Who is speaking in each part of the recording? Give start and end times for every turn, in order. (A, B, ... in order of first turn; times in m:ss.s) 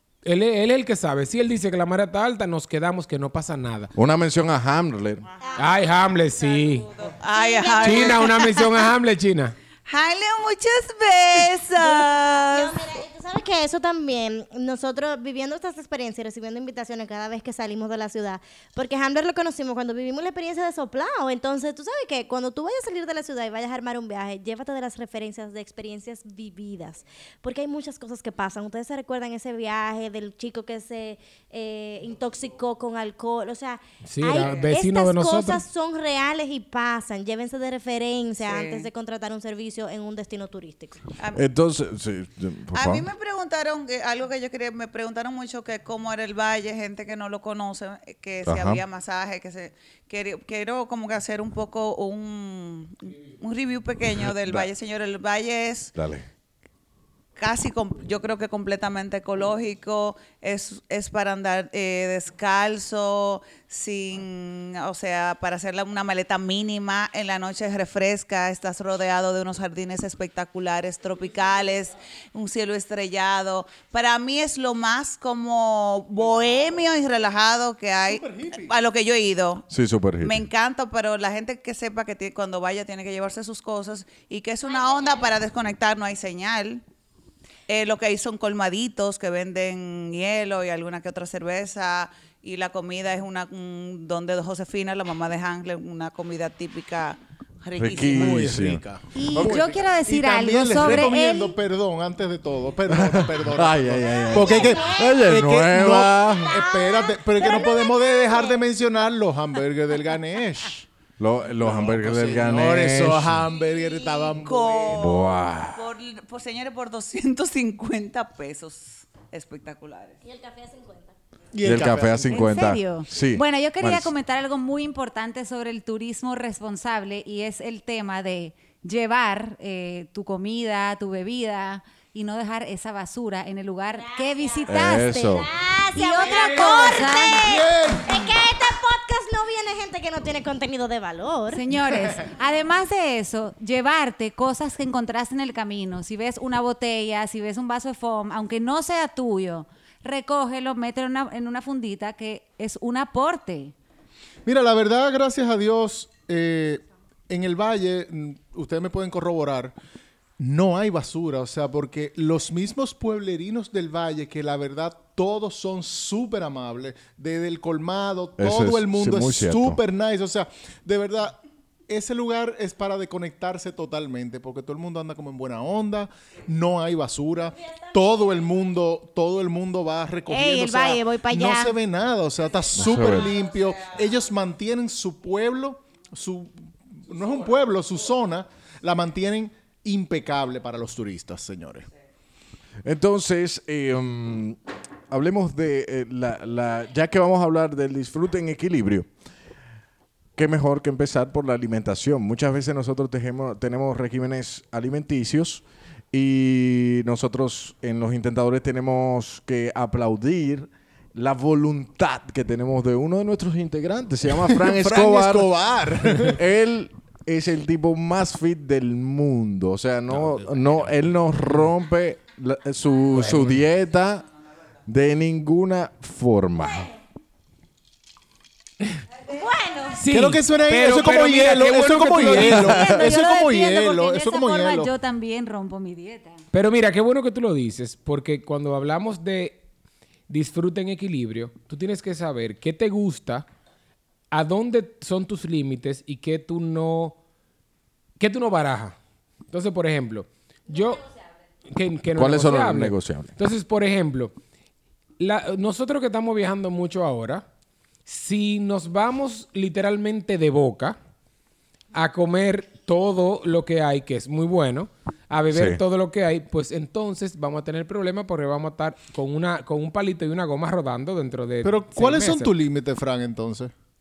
0:00.2-0:03.9 A
0:04.0-0:05.2 B
0:05.2-0:05.7 C
0:05.4-0:05.7 D
0:05.6-0:06.9 A
0:06.4-0:08.7 C
0:07.3-0:08.4 D
0:07.8-0:09.6 A
0:09.9-0:12.8 C
0:11.8-0:41.0 D
0:34.1-0:35.6 A
0:38.4-0:38.9 C
0:41.2-0:41.4 C
0:41.3-0:43.1 B
0:42.7-0:55.9 C
0:48.4-0:48.8 B
0:54.2-0:54.7 B
0:55.9-0:56.3 B
0:57.4-1:19.7 C
1:18.1-1:18.7 E
1:19.7-1:20.4 B
1:20.2-1:26.8 C
1:27.7-1:38.6 C
1:37.8-1:39.6 B
1:38.1-1:50.9 E
1:39.1-1:41.6 F
1:42.9-1:46.6 B
1:46.5-1:48.4 D
1:51.2-1:53.5 B
1:51.6-1:55.1 E
1:53.6-2:00.2 C
1:55.0-1:55.9 B
2:00.2-2:01.1 D
2:01.5-2:02.7 E
2:01.6-2:04.1 B
2:02.3-2:17.5 F
2:14.0-2:21.6 D
2:14.7-2:15.5 B
2:16.2-2:17.4 A
2:17.4-2:18.2 E
2:21.5-2:33.7 F
2:34.4-2:39.8 E
2:40.4-3:11.9 E
2:48.4-2:49.8 B
3:00.3-3:01.7 D
3:02.7-3:03.3 B
3:12.8-3:19.1 B
3:20.4-3:44.3 B
3:34.5-3:36.4 E
3:44.8-3:46.9 B
3:49.3-3:50.0 F
3:49.3-3:49.9 D
3:50.0-3:52.9 A
3:50.1-3:54.9 E
3:52.4-3:56.4 F
3:56.5-3:59.6 A
4:00.3-4:03.4 A
4:04.3-4:07.2 A
4:08.2-4:09.0 A
4:09.5-4:11.1 A
4:11.7-4:14.3 A
4:12.2-4:13.4 B
4:15.2-4:17.4 A
4:18.1-4:21.0 A
4:21.9-4:32.5 A
4:25.5-4:25.8 B
4:31.6-4:33.7 E